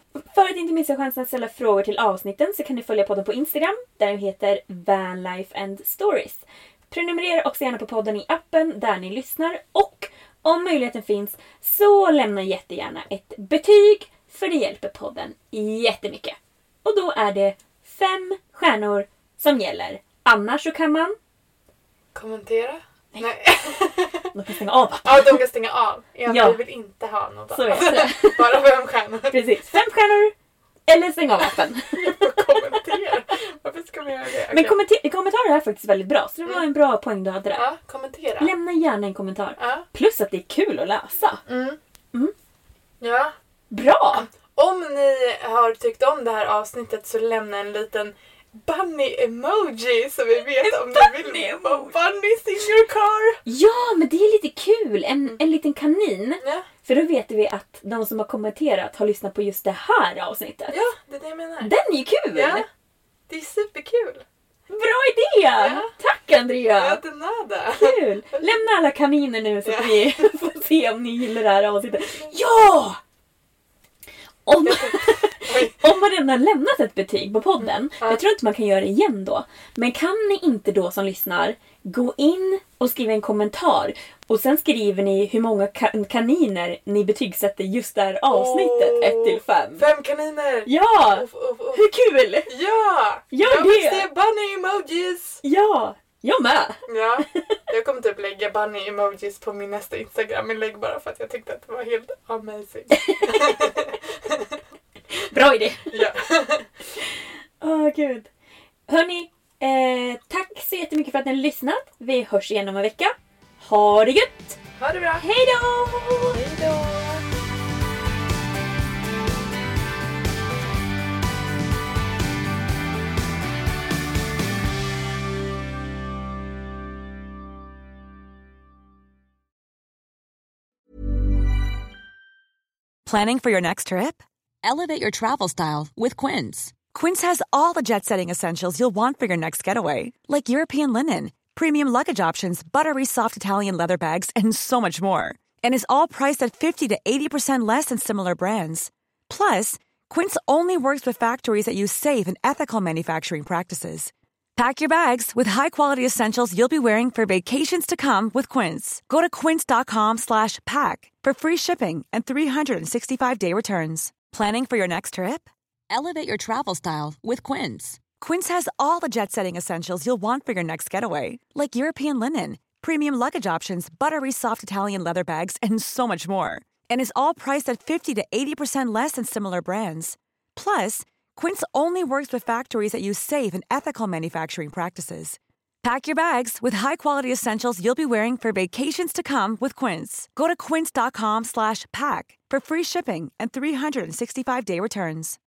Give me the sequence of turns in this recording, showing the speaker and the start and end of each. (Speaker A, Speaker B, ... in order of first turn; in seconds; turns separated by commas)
Speaker A: 0.2-21.2, Speaker B: 22.1-24.3, Speaker A: 24.3-25.4, Speaker B: 25.0-29.8, Speaker A: 26.3-26.6, Speaker A: 27.5-28.6, Speaker A: 29.3-30.3, Speaker A: 30.9-32.2, Speaker B: 31.9-34.8, Speaker A: 34.5-37.6, Speaker B: 37.5-38.5, Speaker A: 38.4-41.4, Speaker B: 39.6-39.9, Speaker B: 41.5-41.8, Speaker B: 43.0-43.3, Speaker A: 43.7-44.3, Speaker B: 44.1-53.4, Speaker A: 50.6-52.0, Speaker A: 53.5-60.8, Speaker B: 56.4-56.7, Speaker B: 60.7-61.7, Speaker A: 61.6-62.6, Speaker B: 62.3-62.6, Speaker B: 63.3-64.2, Speaker A: 64.7-67.0, Speaker B: 65.6-65.9, Speaker B: 66.8-68.6, Speaker A: 67.7-73.0, Speaker B: 69.6-70.3, Speaker A: 74.5-89.8, Speaker B: 74.6-75.9, Speaker B: 77.6-78.2, Speaker B: 88.3-91.8, Speaker A: 90.7-92.5, Speaker B: 92.5-95.4, Speaker A: 93.3-94.1, Speaker A: 95.4-96.8, Speaker B: 96.9-104.6, Speaker A: 102.9-103.6, Speaker A: 105.2-106.0, Speaker B: 105.9-106.7, Speaker A: 107.0-108.3, Speaker A: 108.9-114.6, Speaker B: 114.8-115.2, Speaker A: 115.2-116.4, Speaker B: 116.3-117.2, Speaker C: 133.1-195.4